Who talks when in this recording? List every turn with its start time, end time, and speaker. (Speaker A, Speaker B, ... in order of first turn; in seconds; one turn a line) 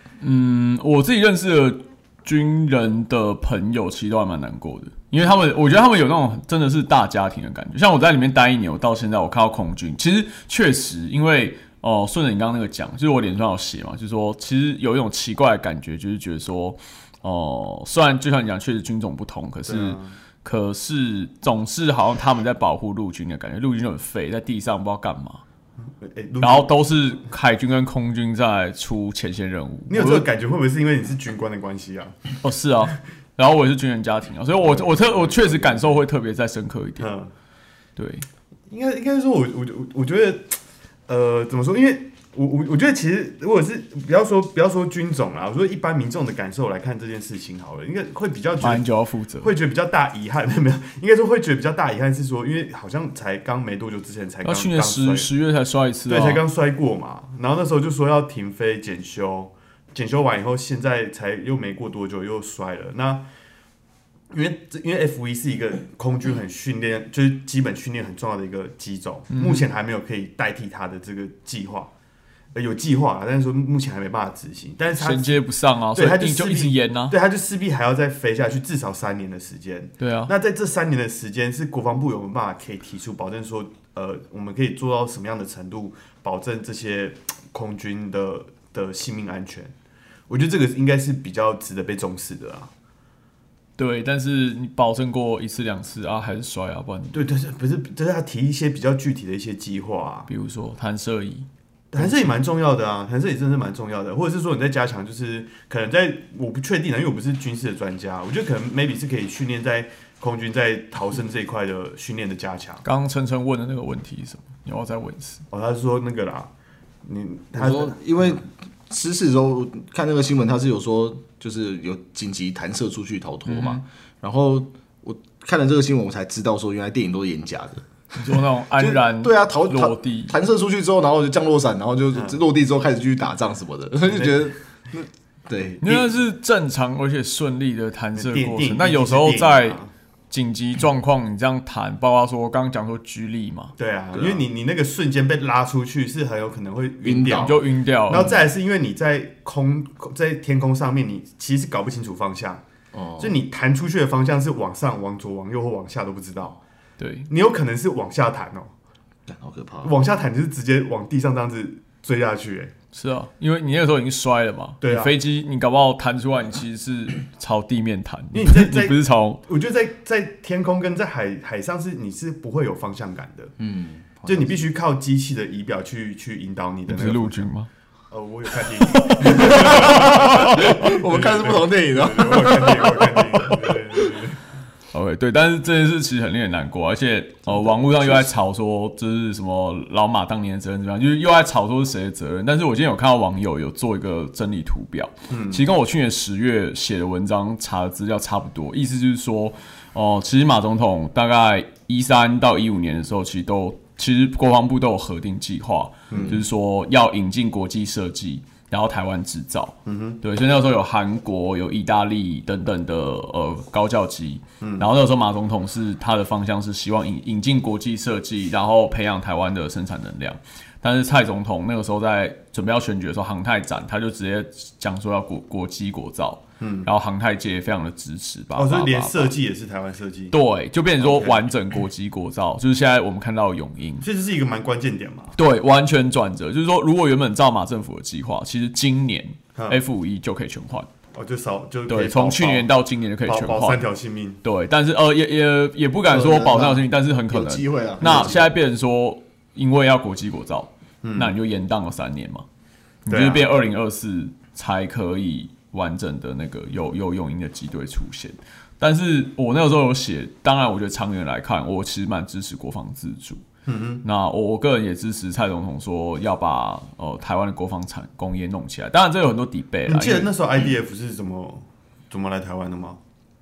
Speaker A: 0.2-25.4
Speaker B: 19.6-20.1
Speaker B: 26.0-26.7
Speaker A: 26.4-30.3
Speaker B: 29.9-32.3
Speaker A: 32.4-37.1
Speaker B: 34.6-36.1
Speaker B: 37.0-37.3
Speaker A: 38.0-38.2
Speaker B: 38.7-48.8
Speaker A: 48.6-49.5
Speaker B: 49.4-55.3
Speaker A: 54.4-56.4
Speaker B: 56.1-63.2
Speaker B: 64.3-71.9
Speaker A: 69.3-69.6
Speaker B: 72.5-75.4
Speaker A: 74.9-77.1
Speaker B: 75.9-89.7
Speaker A: 80.0-80.3
Speaker B: 90.3-92.7
Speaker A: 93.8-97.3
Speaker B: 97.1-100.3
Speaker A: 100.3-102.3
Speaker B: 101.9-112.8
Speaker A: 112.8-115.4
Speaker B: 115.5-116.5
Speaker B: 117.0-118.0
Speaker C: 117.5-127.8
Speaker A: 123.5-123.8
Speaker A: 128.1-130.3
Speaker C: 128.8-136.1
Speaker B: 132.1-132.4
Speaker B: 134.1-134.4
Speaker A: 135.8-139.8
Speaker B: 138.2-139.9
Speaker A: 140.3-143.7
Speaker B: 143.8-152.6
Speaker C: 144.1-144.4
Speaker C: 147.0-148.4
Speaker A: 147.4-148.3
Speaker C: 152.9-153.4
Speaker B: 153.2-156.6
Speaker A: 157.0-157.3
Speaker B: 157.3-158.7
Speaker C: 159.3-160.0
Speaker B: 159.8-162.7
Speaker A: 162.9-169.4
Speaker B: 164.8-165.2
Speaker B: 168.3-173.5
Speaker C: 173.6-174.6
Speaker B: 174.2-177.5
Speaker A: 176.9-177.7
Speaker B: 178.1-184.4
Speaker C: 179.2-184.2
Speaker A: 184.9-229.3
Speaker C: 187.7-188.3
Speaker B: 195.3-195.6
Speaker C: 206.1-206.4
Speaker B: 206.1-206.4
Speaker B: 209.8-210.2
Speaker B: 214.6-214.9
Speaker B: 226.6-226.9
Speaker B: 228.6-230.3
Speaker A: 230.3-234.1
Speaker B: 231.0-231.5
Speaker B: 234.0-235.3
Speaker A: 235.3-240.9
Speaker B: 239.5-239.8
Speaker B: 241.1-242.7
Speaker A: 241.9-243.8
Speaker B: 243.2-244.4
Speaker A: 244.4-252.4
Speaker C: 246.1-248.5
Speaker B: 248.0-248.3
Speaker B: 251.0-251.3
Speaker A: 253.1-263.4
Speaker B: 253.1-253.5
Speaker B: 263.6-264.0
Speaker A: 264.0-270.3
Speaker B: 269.9-273.0